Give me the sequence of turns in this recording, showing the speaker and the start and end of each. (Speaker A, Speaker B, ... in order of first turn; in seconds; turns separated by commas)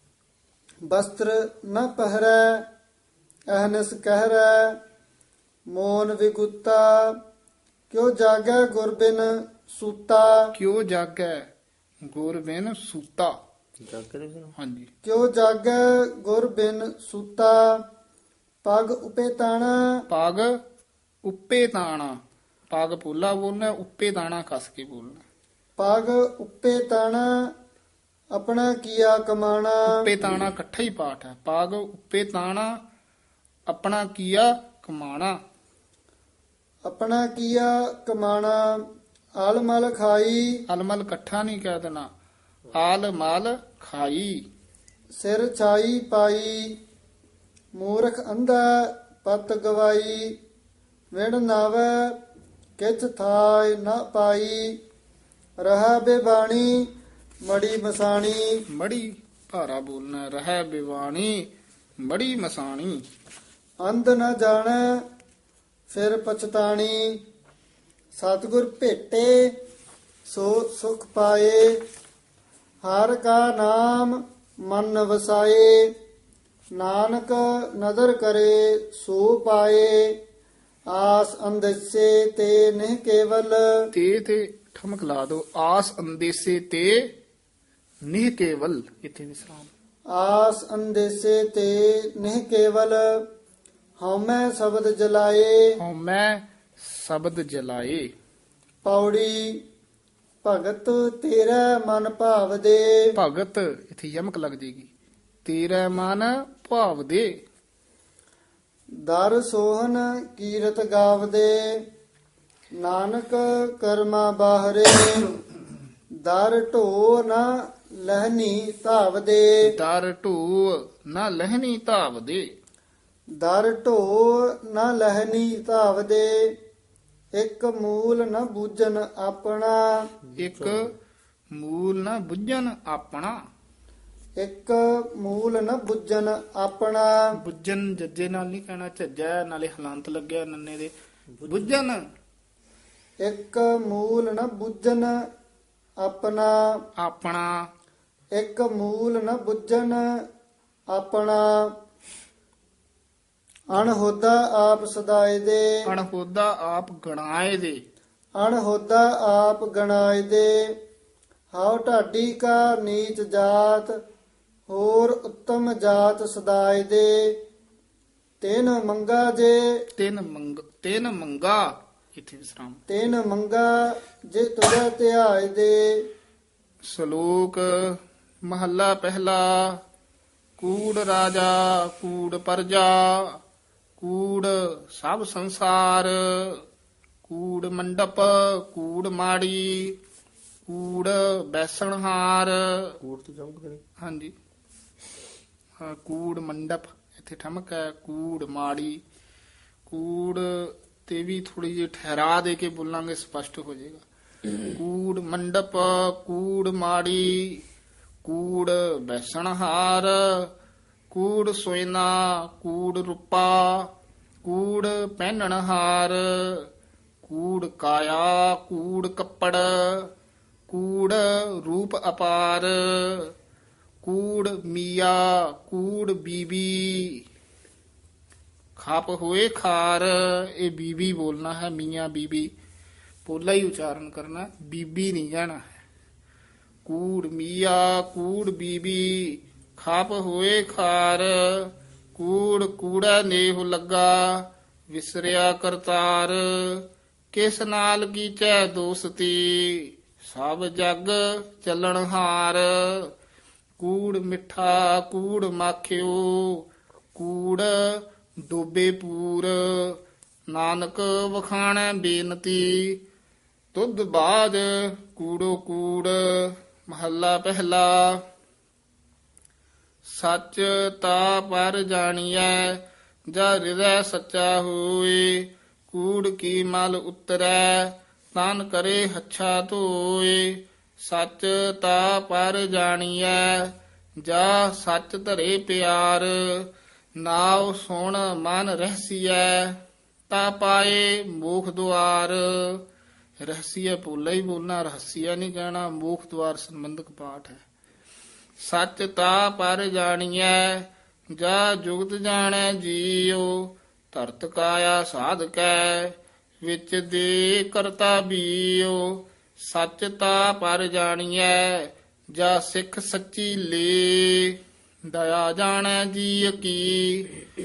Speaker A: 0.9-2.6, Speaker A: 3.5-4.8, Speaker A: 5.7-7.1, Speaker A: 7.9-10.5, Speaker B: 10.5-11.5, Speaker B: 12.0-13.4, Speaker C: 13.8-14.5, Speaker B: 14.6-14.9, Speaker A: 15.0-17.8, Speaker A: 18.6-19.8, Speaker B: 20.1-20.6, Speaker B: 21.2-25.2, Speaker A: 25.8-27.3, Speaker A: 28.3-30.1, Speaker B: 29.9-32.8, Speaker B: 33.7-35.4, Speaker A: 36.9-38.8, Speaker A: 39.4-40.5, Speaker B: 40.7-42.1, Speaker B: 42.7-44.4, Speaker A: 45.1-46.7, Speaker A: 47.8-50.3, Speaker A: 51.1-52.1, Speaker A: 52.8-54.7, Speaker A: 55.6-56.9, Speaker A: 57.5-58.6, Speaker B: 58.7-61.5, Speaker B: 62.0-63.0, Speaker A: 63.8-64.8, Speaker A: 65.9-67.2, Speaker A: 68.2-69.5, Speaker A: 70.3-71.8, Speaker A: 72.8-75.9, Speaker A: 76.8-80.1, Speaker A: 80.9-83.6, Speaker B: 83.9-87.1, Speaker B: 88.0-89.7, Speaker A: 90.1-93.2, Speaker A: 94.0-95.8, Speaker B: 95.8-98.1, Speaker A: 98.8-99.6, Speaker A: 100.4-103.1, Speaker B: 103.2-104.9, Speaker B: 105.4-107.4, Speaker A: 109.1-111.8, Speaker A: 112.8-115.3, Speaker A: 116.2-117.5, Speaker A: 118.0-119.7, Speaker B: 119.6-122.5, Speaker A: 123.4-126.4, Speaker A: 127.3-129.8, Speaker C: 130.3-130.8, Speaker B: 130.4-130.9, Speaker B: 131.5-133.3, Speaker A: 134.4-137.3, Speaker B: 137.4-140.9, Speaker C: 141.3-141.7, Speaker B: 141.4-142.0, Speaker A: 143.2-145.1, Speaker A: 146.0-146.7, Speaker B: 147.0-147.7, Speaker A: 148.3-150.0, Speaker A: 150.9-151.7, Speaker A: 153.7-155.8, Speaker B: 155.9-157.8, Speaker A: 158.4-160.6, Speaker A: 161.5-163.9, Speaker A: 164.7-167.3, Speaker A: 168.4-169.6, Speaker B: 170.0-172.8, Speaker A: 172.9-173.7, Speaker A: 174.3-176.0, Speaker B: 176.8-179.8, Speaker B: 180.6-183.4, Speaker B: 184.0-186.6, Speaker B: 187.3-190.0, Speaker B: 190.7-192.9, Speaker C: 193.0-193.8, Speaker B: 194.0-194.3, Speaker B: 195.8-199.0, Speaker B: 199.9-204.0, Speaker B: 204.7-207.6, Speaker B: 208.2-210.5, Speaker B: 211.1-213.9, Speaker B: 214.4-216.7, Speaker B: 217.2-220.1, Speaker B: 220.7-223.3, Speaker B: 224.0-227.2, Speaker B: 228.8-232.5, Speaker B: 233.2-235.6, Speaker B: 236.8-253.1, Speaker B: 253.8-263.0, Speaker B: 263.7-268.2, Speaker B: 270.1-292.8, Speaker B: 293.4-297.6, Speaker B: 298.6-317.3